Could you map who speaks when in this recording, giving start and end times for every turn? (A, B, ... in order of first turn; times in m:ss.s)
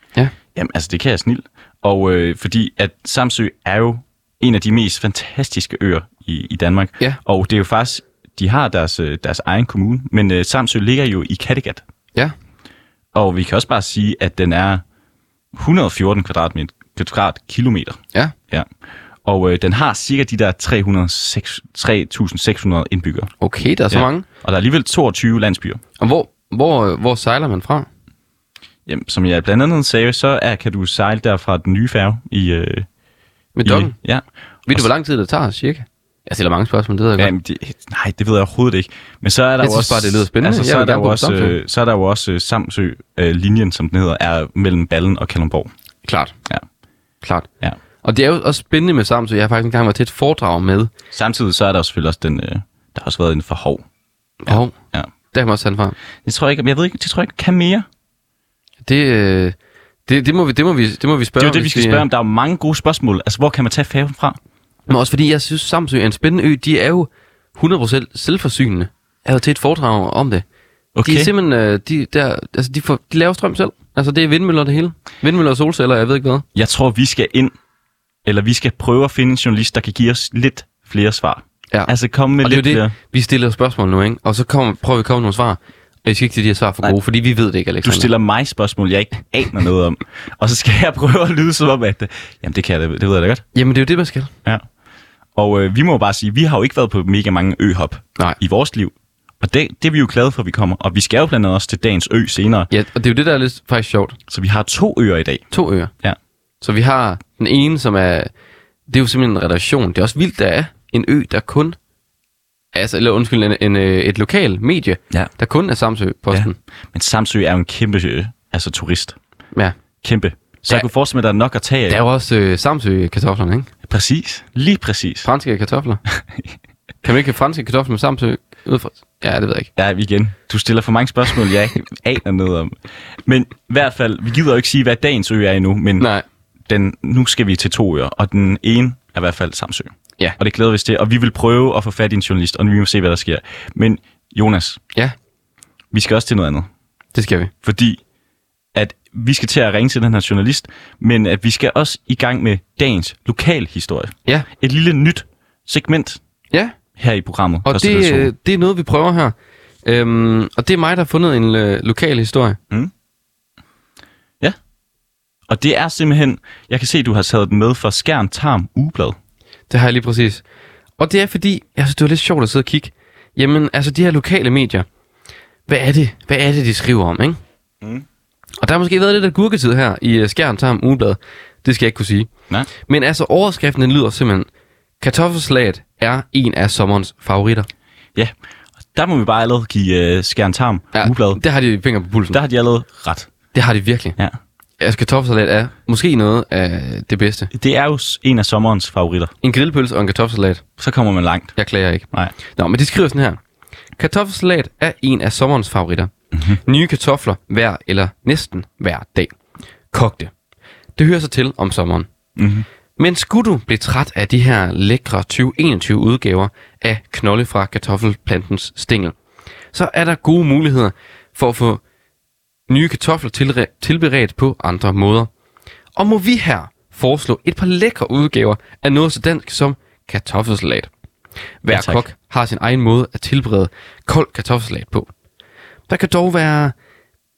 0:00.5-0:11.8 A
0:13.1-0:14.8 A
0:15.5-0:18.7 A
0:19.2-0:23.3 A
0:23.4-0:24.2 B
0:23.9-0:25.8 A
0:26.0-0:27.9 B
0:28.8-0:32.8 A
0:33.6-0:33.9 B
0:33.6-0:34.9 A
0:34.7-0:37.3 B
0:37.2-0:45.7 A
0:39.6-0:41.6 B
0:46.0-0:46.3 B
0:47.2-0:47.5 B
0:48.0-0:50.9 B
0:51.1-0:53.8 A
0:54.4-0:54.7 B
0:54.5-0:55.1 A
0:55.3-0:56.0 B
0:56.2-0:57.8 A
0:58.8-0:59.5 B
1:00.1-1:02.0 B
1:01.4-1:04.4 A
1:04.9-1:10.4 B
1:10.9-1:11.3 A
1:11.0-1:16.4 B
1:16.5-1:17.5 A
1:18.2-1:22.9 A
1:21.7-1:28.1 B
1:27.8-1:33.4 A
1:33.5-1:34.3 B
1:35.3-1:42.7 A
1:42.7-1:44.2 B
1:44.3-1:45.4 A
1:45.5-1:45.9 B
1:46.6-1:48.3 B
1:48.9-1:51.8 B
1:52.7-1:56.6 B
1:56.3-1:59.2 A
2:00.0-2:02.0 A
2:01.9-2:03.7 B
2:03.9-2:05.3 A
2:05.2-2:06.0 B
2:07.0-2:09.7 B
2:09.8-2:16.1 A
2:16.0-2:16.2 B
2:16.7-2:24.8 A
2:25.9-2:26.7 A
2:27.1-2:27.5 B
2:27.6-2:28.0 A
2:28.7-2:36.2 A
2:37.0-2:38.3 A
2:37.6-2:42.6 B
2:45.5-2:49.2 A
2:49.7-2:50.4 B
2:51.0-2:54.8 B
2:55.7-2:57.4 B
2:58.6-3:02.3 B
3:02.8-3:04.5 B
3:05.0-3:07.7 B
3:08.9-3:11.4 A
3:10.9-3:12.4 B
3:12.3-3:13.3 A
3:13.5-3:14.2 B
3:14.8-3:17.5 B
3:17.5-3:19.3 A
3:19.4-3:20.6 B
3:20.8-3:21.6 A
3:21.6-3:23.4 B
3:24.0-3:26.1 B
3:26.3-3:26.6 A
3:26.6-3:29.3 B
3:29.9-3:30.3 B
3:31.0-3:32.1 B
3:32.4-3:32.6 A
3:33.0-3:39.2 B
3:39.7-3:41.8 B
3:42.7-3:45.3 B
3:45.9-3:50.9 B
3:51.6-3:55.1 B
3:51.7-3:52.0 A
3:55.9-3:56.7 B